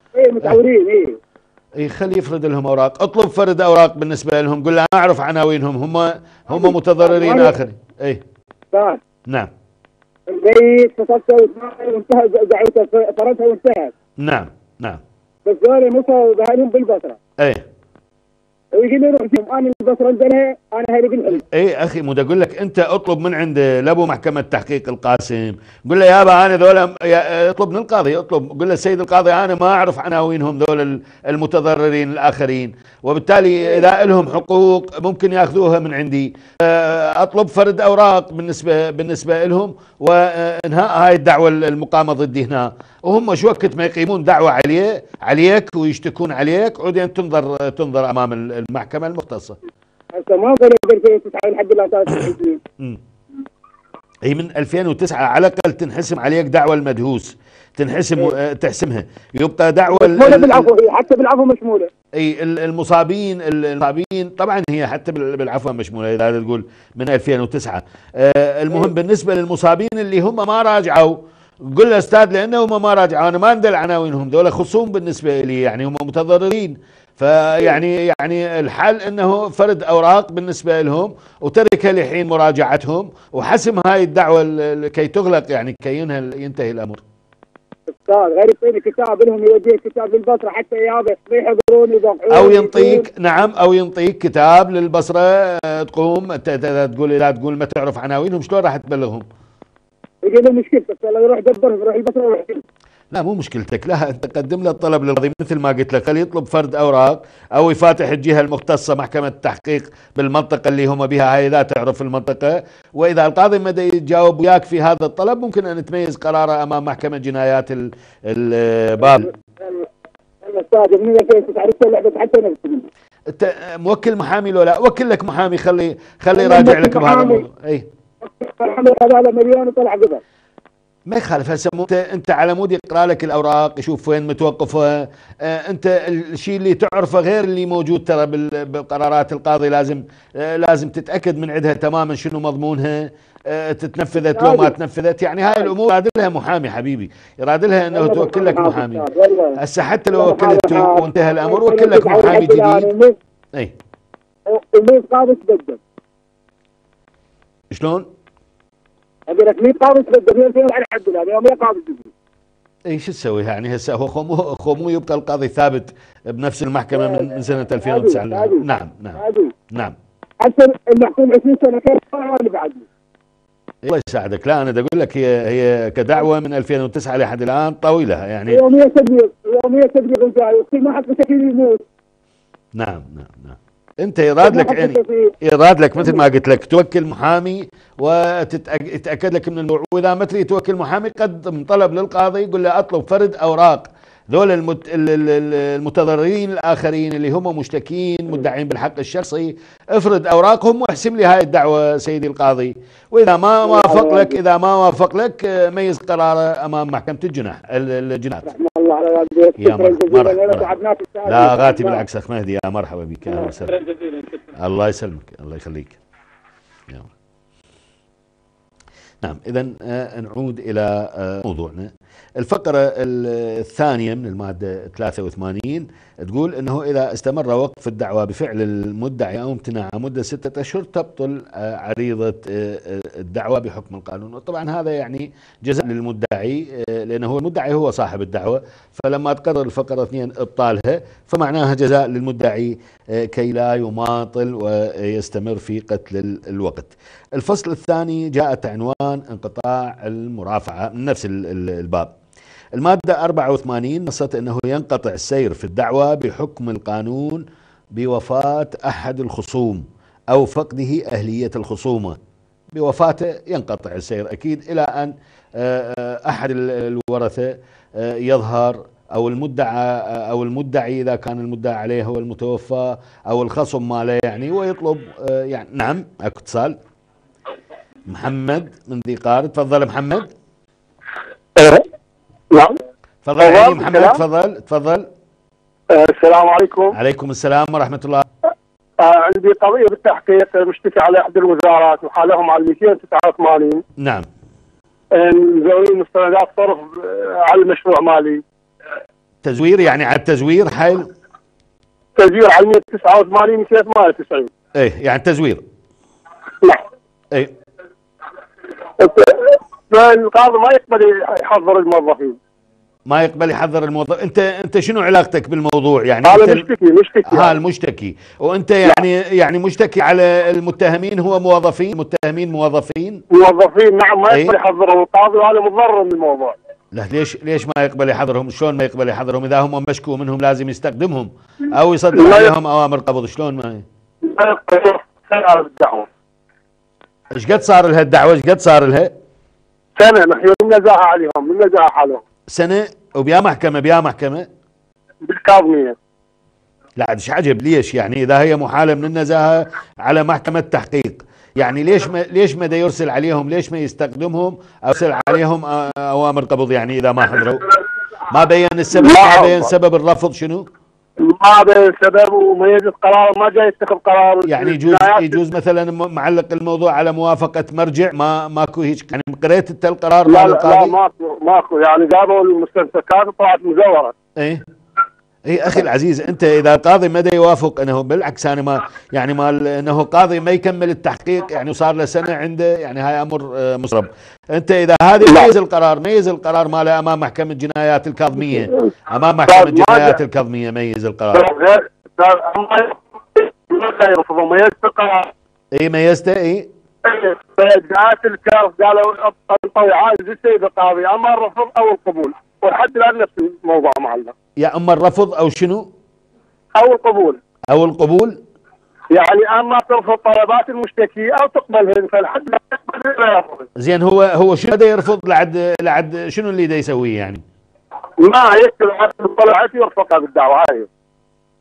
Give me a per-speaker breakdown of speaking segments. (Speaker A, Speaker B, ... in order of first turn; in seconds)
Speaker A: 0.1-1.1, 7.1-7.5, 8.7-9.0, 10.3-13.9, 15.5-17.2, 18.8-21.4, 50.2-52.6, 60.0-61.9, 88.1-93.0, 100.2-102.6, 120.5-122.8, 126.4-127.4, 128.3-130.2, 144.3-144.7, 148.0-149.6, 150.2-153.2, 154.5-155.8, 159.3-162.1, 167.0-167.3, 167.8-168.6, 169.2-169.5, 170.4-172.8, 178.5-181.8, 184.5-185.3, 203.7-204.3, 208.5-212.0
Speaker B: 1.8-8.2, 14.2-15.0, 17.4-17.6, 21.3-49.6, 54.3-60.7, 62.2-87.0, 92.3-99.2, 103.1-119.3, 123.3-127.9, 131.1-152.9, 157.7-158.1, 162.9-169.2, 173.8-178.6, 182.8-208.5, 209.6-210.7, 211.3-213.8, 214.6-216.0, 219.2-252.1, 252.8-257.4, 257.9-262.2, 262.8-276.8, 278.1-280.3, 283.2-285.1, 286.9-288.2, 294.0-294.3, 299.4-301.1, 304.8-305.6, 313.1-316.7, 317.3-323.2, 324.3-324.6, 326.9-333.9, 337.4-339.1, 342.5-344.5, 347.0-357.7, 358.3-360.7, 364.4-370.9, 375.5-391.5, 395.8-396.7, 404.6-405.9, 407.7-408.4, 413.8-417.4
Speaker C: 281.6-281.9, 282.5-282.8, 283.4-284.2, 285.9-286.9, 289.0-293.8, 295.2-298.4, 302.2-304.5, 309.0-312.4, 316.2-317.5, 323.3-326.6, 332.1-332.5, 334.2-336.1, 340.0-342.2, 345.2-345.9, 358.9-359.7, 361.2-365.4, 370.3-374.1, 385.2-385.5, 388.6-388.9, 389.5-390.2, 391.3-395.3, 397.0-404.3, 406.8-407.4, 409.1-413.7, 418.2-420.9